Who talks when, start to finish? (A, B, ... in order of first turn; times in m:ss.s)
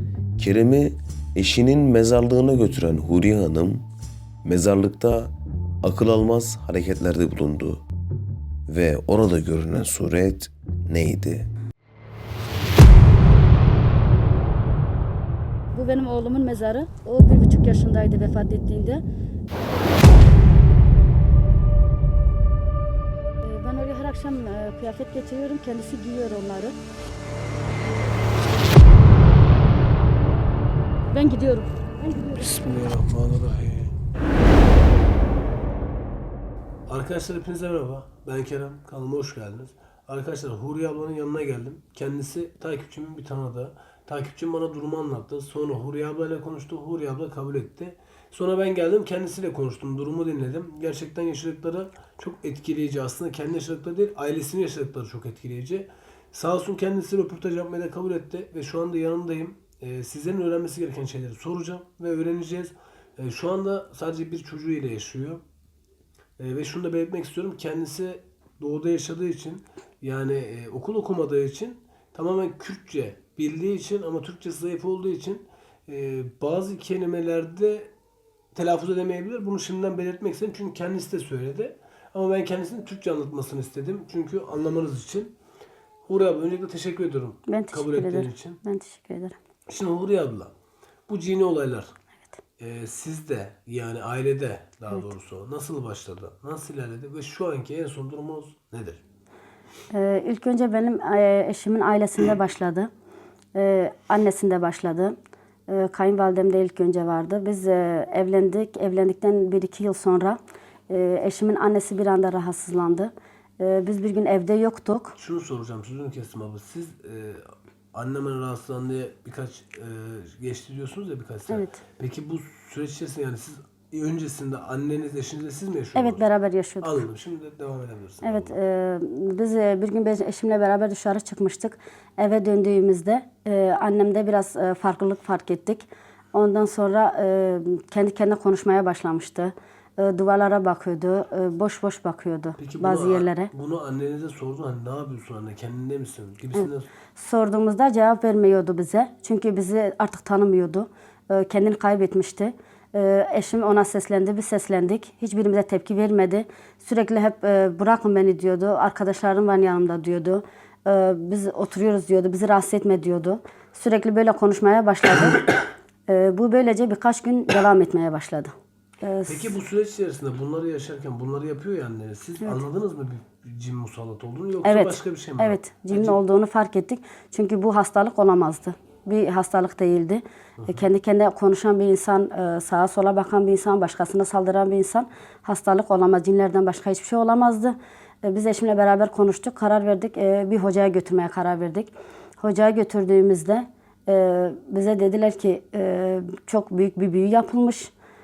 0:00.4-0:03.9 A
0:04.4-0:07.8 A
0:08.7-0:11.5 A
0:15.7-0:19.0 B
0:23.4-0:26.8 B
0:31.1-0:32.5 B
0:32.4-0:33.9 C
0:36.9-1:05.4 C
1:06.4-1:17.9 C
1:18.6-1:25.3 C
1:26.1-1:28.6 C
1:27.5-1:29.4 B
1:29.7-1:30.5 C
1:31.1-1:31.9 C
1:32.6-1:39.0 C
1:39.9-1:42.9 B
1:43.6-1:45.2 B
1:45.7-1:50.4 B
1:50.9-1:55.2 B
1:55.2-2:06.3 C
2:01.5-2:01.8 B
2:06.0-2:07.1 B
2:06.8-2:08.6 C
2:08.2-2:23.5 B
2:22.6-2:26.9 C
2:26.6-2:45.5 B
2:46.1-2:49.6 B
2:49.3-2:56.2 C
2:54.6-3:17.9 B